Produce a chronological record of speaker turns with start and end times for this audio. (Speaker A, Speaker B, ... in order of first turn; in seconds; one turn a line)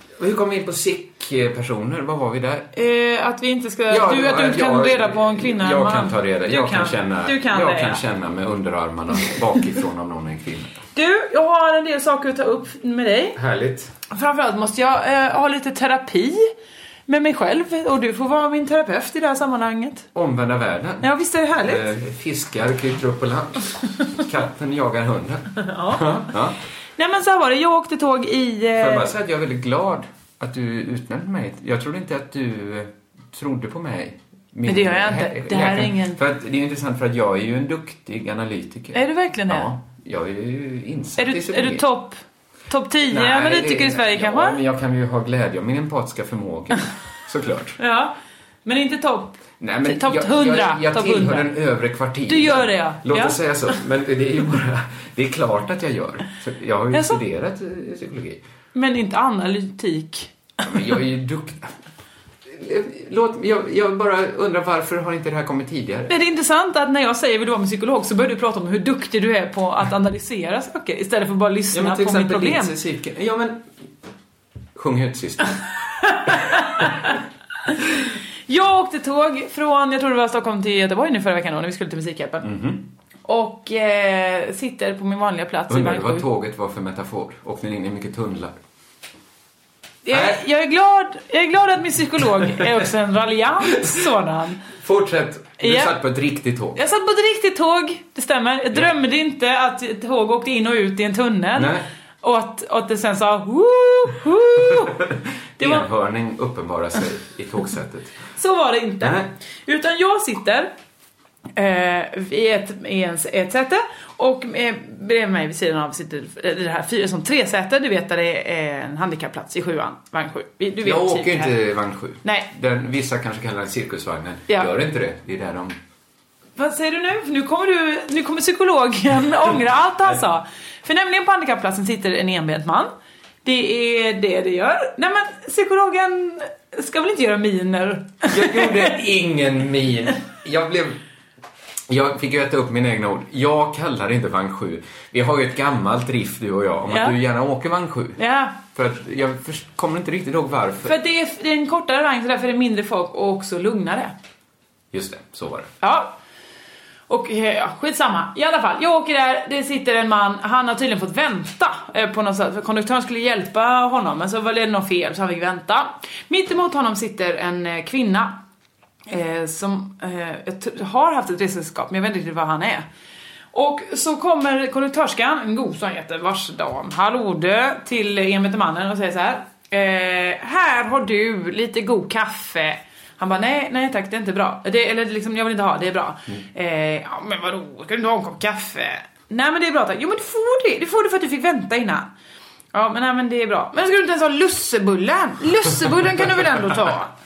Speaker A: 0.2-2.7
Speaker B: 2.7-8.0
Speaker A: 3.9-10.8
Speaker B: 10.9-13.4
Speaker A: 13.3-13.9
Speaker B: 14.1-16.5
Speaker B: 17.1-20.1
Speaker A: 20.1-26.6
Speaker B: 21.0-21.9
Speaker B: 25.6-26.2
Speaker B: 27.0-29.1
Speaker A: 28.8-41.9
Speaker B: 34.6-36.2
Speaker B: 38.9-39.7
Speaker B: 41.2-44.6
Speaker A: 43.1-47.8
Speaker B: 47.8-51.5
Speaker A: 49.6-58.4
Speaker B: 52.2-53.7
Speaker B: 56.9-57.2
Speaker B: 58.7-61.0
Speaker A: 60.6-61.7
Speaker A: 62.5-66.1
Speaker B: 66.1-72.7
Speaker A: 71.7-73.7
Speaker A: 74.7-75.6
Speaker B: 76.0-77.1
Speaker B: 78.5-82.5
Speaker A: 82.4-82.8
Speaker B: 83.3-86.3
Speaker A: 85.7-88.6
Speaker B: 90.0-94.6
Speaker A: 90.1-90.4
Speaker A: 92.4-92.7
Speaker A: 94.7-96.8
Speaker B: 95.6-96.0
Speaker B: 96.7-105.0
Speaker A: 101.5-101.9
Speaker A: 105.6-108.2
Speaker B: 105.6-105.9
Speaker B: 108.3-110.7
Speaker A: 109.0-109.3
Speaker B: 111.5-121.6
Speaker A: 120.8-125.8
Speaker B: 122.2-122.5
Speaker B: 126.6-132.9
Speaker B: 133.4-139.0
Speaker A: 138.3-141.0
Speaker A: 141.9-151.0
Speaker B: 146.9-147.2
Speaker B: 148.2-148.6
Speaker B: 150.8-154.1
Speaker A: 154.9-155.7
Speaker B: 155.8-156.2
Speaker B: 157.1-168.4
Speaker B: 169.1-172.8
Speaker B: 173.5-192.1
Speaker B: 192.7-197.1